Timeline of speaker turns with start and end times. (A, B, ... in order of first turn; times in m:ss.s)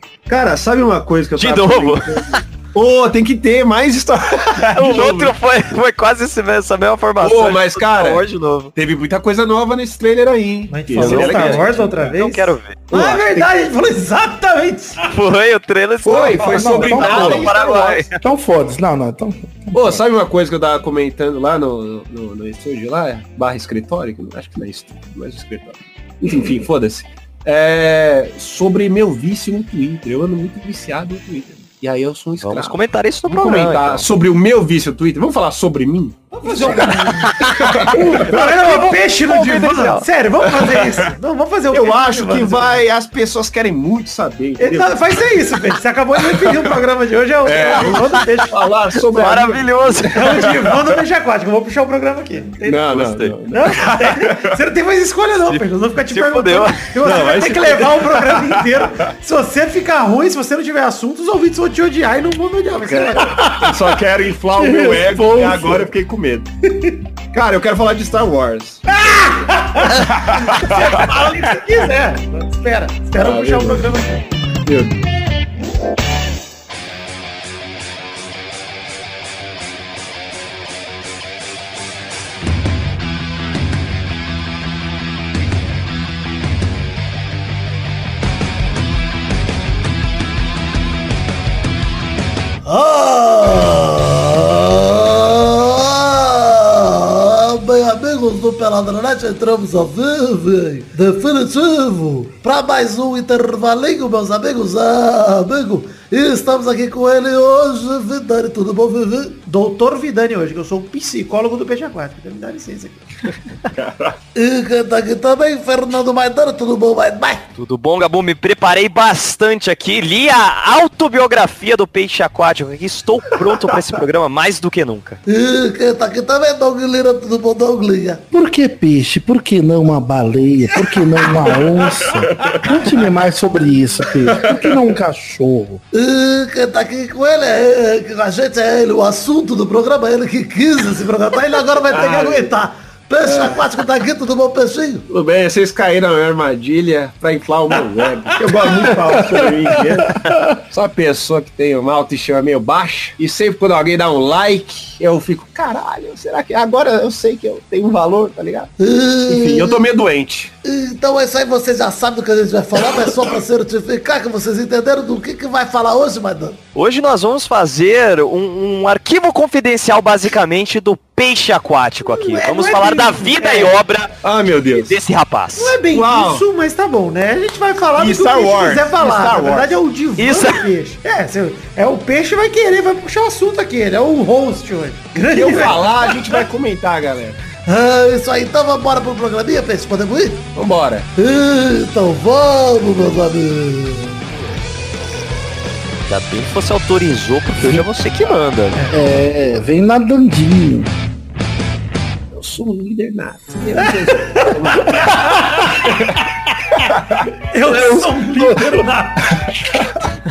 0:00.3-0:05.3 A
0:01.4-0:02.4 B
0:04.7-0:08.7 B
0:07.2-0:12.1 A
0:10.7-0:15.0 C
0:11.0-0:12.8 B
0:12.9-0:13.5 A
0:15.0-0:18.2 B
0:16.0-0:18.0 A
0:16.4-0:17.6 D
0:18.2-0:20.0 D
0:19.7-0:38.4 A
0:32.4-0:34.1 B
0:36.3-0:42.8 C
0:36.7-0:40.1 B
0:40.7-0:41.0 A
0:41.7-0:45.4 A
0:44.6-0:48.6 C
0:46.3-0:46.7 A
0:47.4-0:50.9 A
0:49.0-0:50.6 B
0:50.1-0:52.9 C
0:52.6-0:54.5 A
0:52.9-0:53.3 B
0:53.5-1:03.4 C
0:56.1-0:56.9 B
0:57.0-0:58.9 A
1:02.9-1:06.5 A
1:03.3-1:04.0 D
1:04.6-1:05.9 D
1:07.3-1:09.0 A
1:08.9-1:14.3 C
1:09.9-1:11.1 A
1:13.2-1:13.9 A
1:14.6-1:15.1 A
1:32.6-1:49.4 E
1:49.4-1:53.0 C
1:53.8-1:54.2 A
1:54.3-1:57.5 E
1:57.6-2:05.2 B
2:05.2-2:08.2 E
2:08.3-2:15.8 D
2:12.3-2:12.6 A
2:14.3-2:14.7 A
2:15.9-2:22.5 E
2:21.9-2:22.5 A
2:21.9-2:22.7 C
2:23.1-2:25.0 E
2:23.2-2:23.6 A
2:25.1-2:38.7 A
2:28.6-2:30.6 D
2:38.8-2:39.8 E
2:39.3-2:40.5 A
2:40.6-2:46.6 E
2:46.7-2:54.1 B
2:52.0-2:53.8 C
2:54.2-2:55.0 A
2:54.7-2:55.8 B
2:55.5-3:06.2 C
2:55.8-2:56.4 A
2:58.0-2:59.8 A
3:00.2-3:00.6 B
3:05.1-3:07.4 A
3:07.6-3:10.4 E
3:10.5-3:11.1 A
3:11.2-3:14.2 E
3:16.1-3:18.8 B
3:18.7-3:19.1 C
3:18.9-3:20.9 D
3:22.3-3:27.3 A
3:24.1-3:25.6 C
3:25.0-3:25.6 D
3:27.5-3:29.4 C
3:27.6-3:28.7 D
3:29.4-3:29.9 D